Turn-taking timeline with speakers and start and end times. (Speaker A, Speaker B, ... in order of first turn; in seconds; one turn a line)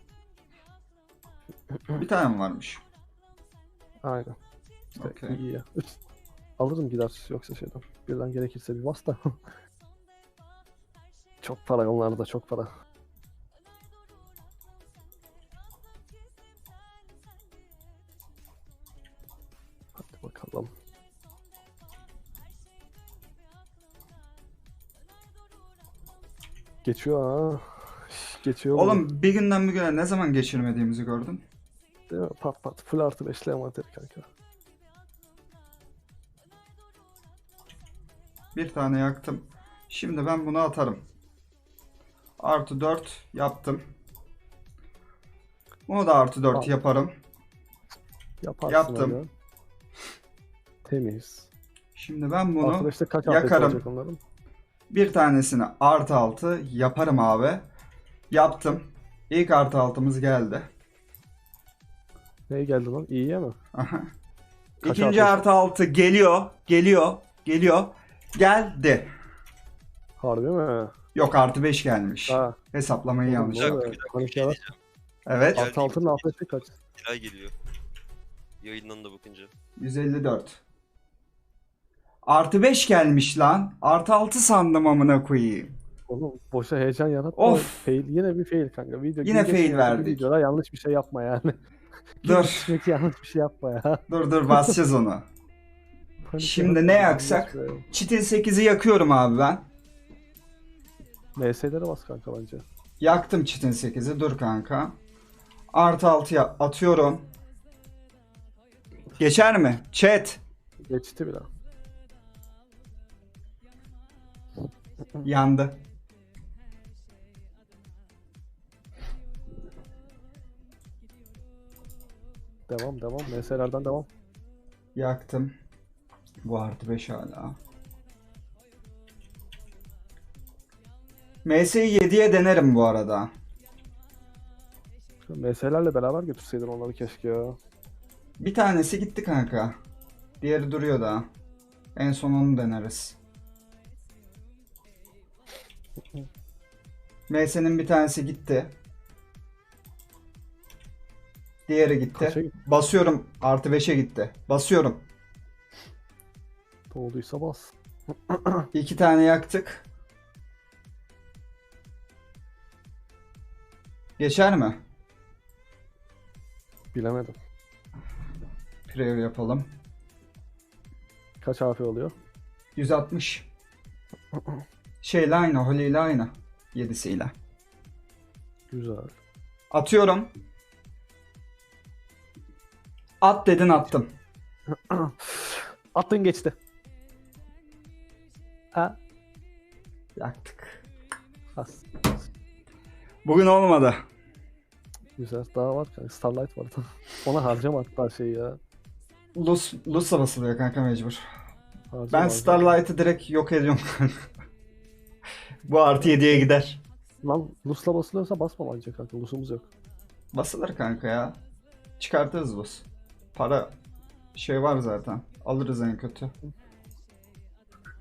Speaker A: 1.9-2.8
Speaker B: 4.0-4.3
Speaker B: 5.0-5.9
Speaker A: 5.0-5.4
Speaker B: 6.6-9.4
Speaker B: 11.4-12.7
Speaker B: 20.0-20.7
Speaker B: 26.8-29.0
Speaker A: 28.7-31.4
Speaker B: 32.1-34.3
Speaker A: 38.5-41.0
Speaker A: 42.4-43.8
Speaker A: 45.9-47.1
Speaker B: 48.4-49.3
Speaker A: 48.7-49.2
Speaker B: 50.8-51.5
Speaker A: 52.0-53.8
Speaker B: 52.6-54.2
Speaker A: 54.9-57.6
Speaker A: 58.3-60.7
Speaker B: 62.5-63.6
Speaker A: 63.7-64.1
Speaker A: 64.8-69.1
Speaker B: 64.8-65.4
Speaker B: 70.2-70.9
Speaker A: 71.2-73.9
Speaker B: 72.3-72.6
Speaker B: 73.3-74.6
Speaker C: 73.5-74.8
Speaker A: 75.3-75.7
Speaker C: 75.5-77.5
Speaker B: 75.5-76.7
Speaker C: 78.6-79.5
Speaker A: 79.8-80.6
Speaker A: 82.3-85.7
Speaker B: 86.1-91.6
Speaker A: 87.3-87.8
Speaker A: 89.2-90.2
Speaker B: 92.2-94.8
Speaker A: 92.2-92.7
Speaker A: 94.1-95.3
Speaker B: 96.3-97.8
Speaker A: 96.4-99.7
Speaker B: 101.3-102.7
Speaker A: 103.0-105.0
Speaker A: 105.7-107.3
Speaker A: 109.2-110.4
Speaker B: 110.8-111.5
Speaker A: 115.2-115.8
Speaker B: 122.7-124.1
Speaker A: 125.0-125.5
Speaker A: 126.5-127.6
Speaker A: 131.4-133.3
Speaker B: 135.3-137.6
Speaker A: 138.4-139.8
Speaker A: 140.4-141.3
Speaker A: 141.9-143.2
Speaker A: 147.3-148.7
Speaker A: 151.7-155.0
Speaker B: 152.1-152.5
Speaker B: 156.9-157.7
Speaker B: 158.3-158.7
Speaker A: 158.7-159.8
Speaker A: 164.2-164.8
Speaker B: 166.9-167.4
Speaker A: 168.9-169.7
Speaker B: 171.4-172.1
Speaker A: 172.8-173.5
Speaker A: 175.0-177.3
Speaker B: 178.7-179.2
Speaker A: 179.7-180.3
Speaker A: 183.2-184.1
Speaker B: 184.9-186.6
Speaker A: 190.2-190.8
Speaker B: 191.6-192.2
Speaker A: 193.2-194.0
Speaker B: 195.2-198.6
Speaker A: 199.3-201.2
Speaker B: 201.9-202.8
Speaker A: 202.1-204.3
Speaker A: 205.7-206.8
Speaker B: 206.0-206.5
Speaker B: 207.2-209.7
Speaker A: 210.3-211.4
Speaker A: 212.0-213.8
Speaker A: 214.3-216.3